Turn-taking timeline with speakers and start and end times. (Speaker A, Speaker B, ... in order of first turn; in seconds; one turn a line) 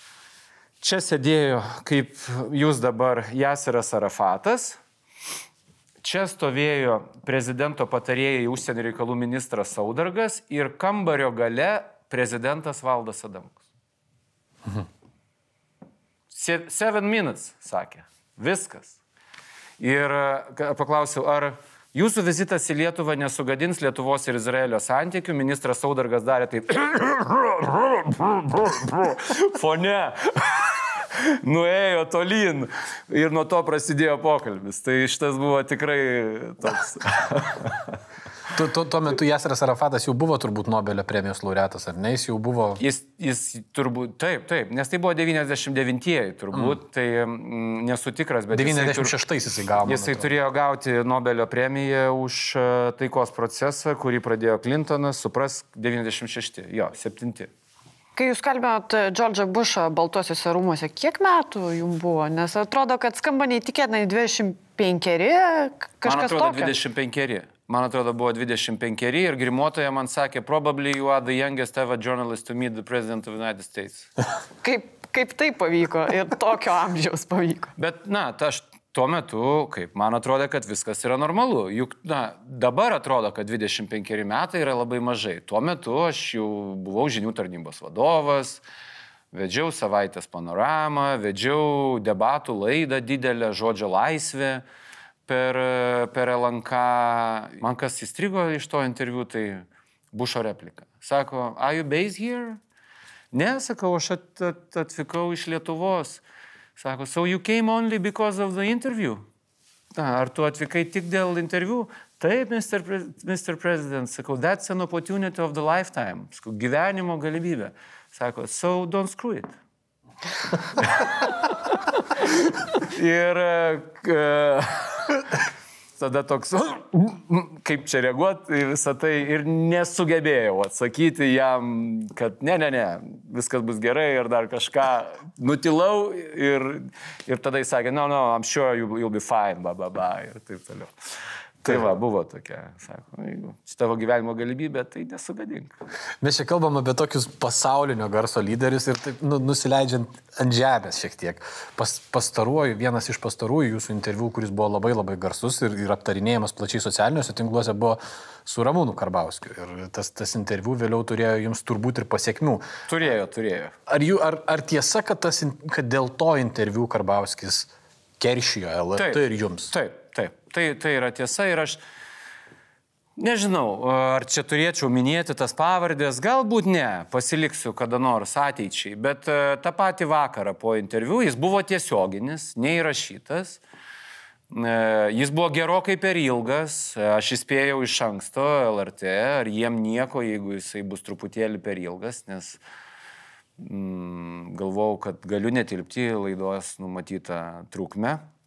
Speaker A: 0.8-4.8
Speaker A: 6.0-13.6
Speaker A: 16.3-19.0
Speaker A: 19.8-38.0
Speaker B: 38.5-42.8
Speaker A: 42.8-49.2
Speaker B: 48.5-50.3
Speaker A: 49.8-57.5
Speaker C: 58.2-66.7
Speaker A: 66.0-74.1
Speaker C: 74.6-77.7
Speaker A: 77.8-88.6
Speaker A: 89.3-94.6
Speaker A: 95.3-102.6
Speaker A: 103.3-106.2
Speaker A: 106.8-109.2
Speaker A: 110.0-119.6
Speaker A: 120.8-121.1
Speaker A: 122.8-125.3
Speaker A: 126.0-140.9
Speaker A: 141.6-145.8
Speaker B: 146.2-162.7
Speaker A: 162.9-163.8
Speaker B: 163.9-169.7
Speaker A: 169.0-171.8
Speaker A: 173.2-183.6
Speaker A: 184.5-192.6
Speaker A: 193.6-198.2